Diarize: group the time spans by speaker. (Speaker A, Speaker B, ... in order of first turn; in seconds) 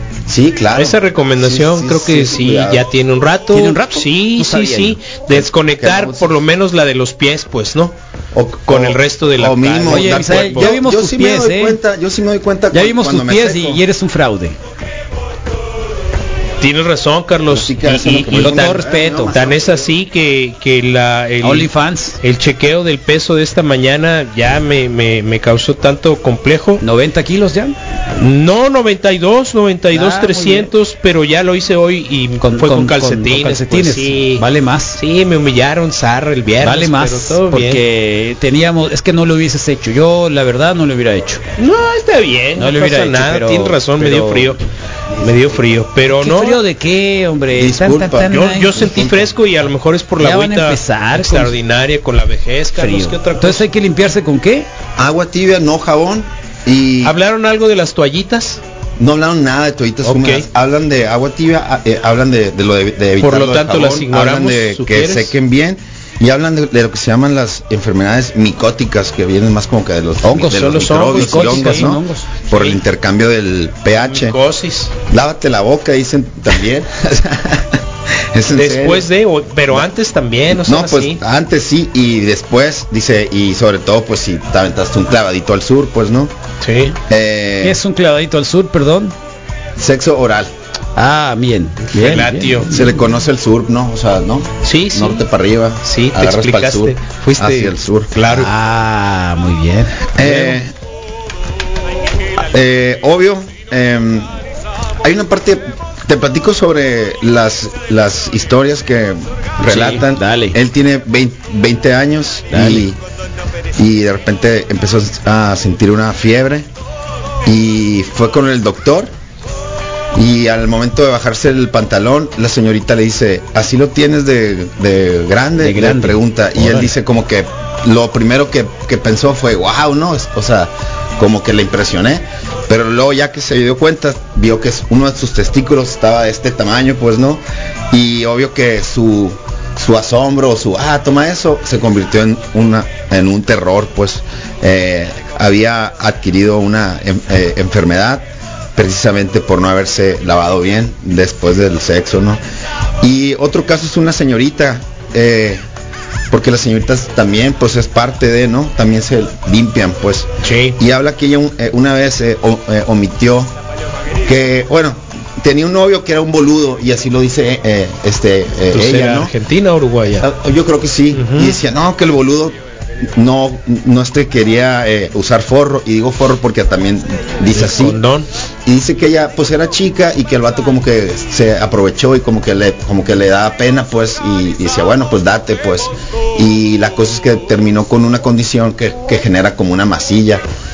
Speaker A: 0.3-2.8, 5.3-6.4, 8.3-13.8, 17.5-19.9, 47.5-49.3, 55.0-57.2, 59.0-74.4, 75.1-79.1, 80.5-86.3, 87.1-87.8, 89.8-90.5, 92.7-98.1, 100.2-100.7, 102.5-104.3, 105.0-113.0, 113.8-116.7, 117.5-119.1, 120.1-152.4, 153.0-155.6, 156.3-163.5, 164.2-169.3, 170.2-178.0, 178.7-190.4
Speaker B: 0.7-7.9, 8.7-10.7, 16.6-21.7, 22.2-26.8, 28.2-34.4, 35.0-37.8, 41.6-44.6, 45.2-46.6, 48.3-53.6, 57.0-58.6, 60.0-60.5, 63.2-65.3, 70.4-71.9, 72.5-72.8, 73.9-74.9, 78.5-81.2, 86.6-87.0, 91.9-92.7, 94.6-95.2, 95.8-98.5, 160.4-160.8, 168.7-170.2, 171.1-171.5, 177.5-178.3
Speaker C: 3.5-5.0, 9.8-11.8, 12.7-14.6, 18.3-19.4, 21.4-22.2, 26.8-27.7, 29.9-30.7, 32.4-35.0, 36.6-41.4, 42.6-44.5, 46.1-48.8, 50.2-51.5, 52.8-54.7, 70.2-72.2, 87.6-89.1, 91.0-93.0, 98.2-100.6, 109.6-110.6, 112.5-112.8, 125.6-126.9